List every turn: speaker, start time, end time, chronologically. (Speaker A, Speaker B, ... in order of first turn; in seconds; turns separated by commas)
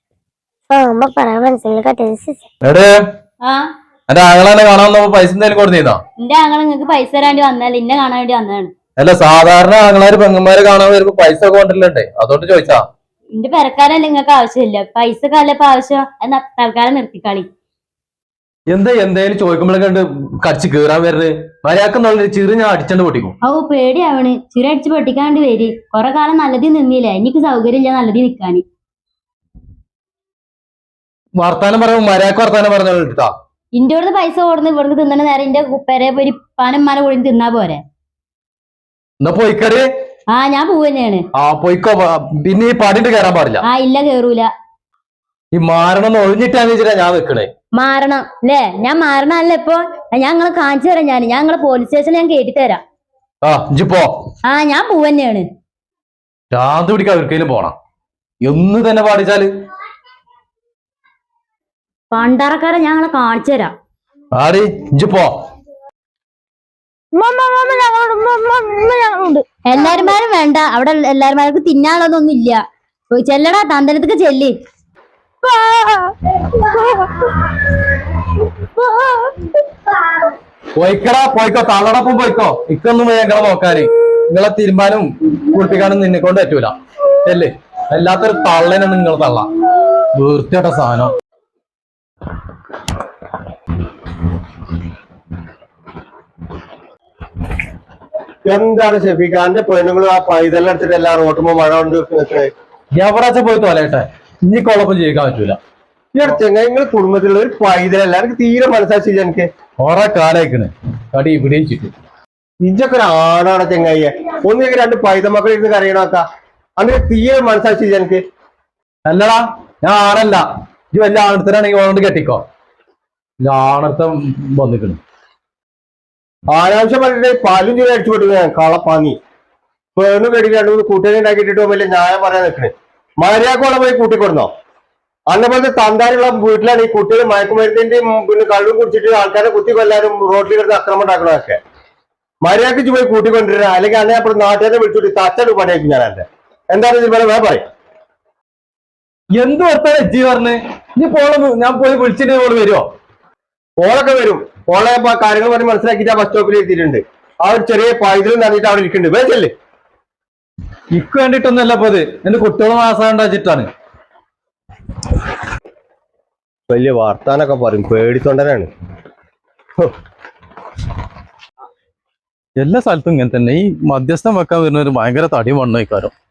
Speaker A: 0.7-2.5, Speaker B: 2.6-2.9, Speaker B: 4.1-6.0, Speaker C: 6.2-8.7, Speaker B: 9.0-12.8, Speaker C: 13.3-17.5, Speaker B: 18.7-23.4, Speaker C: 23.4-28.6, Speaker B: 31.4-33.3, Speaker C: 33.7-37.8, Speaker B: 39.2-39.9, Speaker C: 40.3-41.2, Speaker B: 41.4-43.6, Speaker C: 43.6-44.5, Speaker B: 45.5-47.5, Speaker C: 47.8-52.8, Speaker B: 53.4-54.1, Speaker C: 54.5-55.5, Speaker B: 56.5-57.8, Speaker B: 58.4-59.5, Speaker C: 62.1-63.7, Speaker B: 64.3-65.3, Speaker A: 67.1-69.4, Speaker C: 69.7-72.6, Speaker C: 73.1-74.5, Speaker A: 75.4-77.3, Speaker A: 78.8-79.4, Speaker B: 80.8-89.5, Speaker B: 90.2-91.1, Speaker D: 98.5-102.5, Speaker B: 103.0-105.6, Speaker D: 106.1-109.5, Speaker B: 109.8-111.9, Speaker D: 112.6-116.2, Speaker D: 116.8-118.2, Speaker B: 119.1-122.4, Speaker B: 123.4-125.0, Speaker D: 126.5-129.2, Speaker D: 130.0-134.5, Speaker D: 135.3-141.6, Speaker D: 142.4-147.6, Speaker B: 149.4-152.8, Speaker D: 153.8-159.5, Speaker B: 160.9-163.7, Speaker D: 166.7-168.7, Speaker B: 172.6-176.1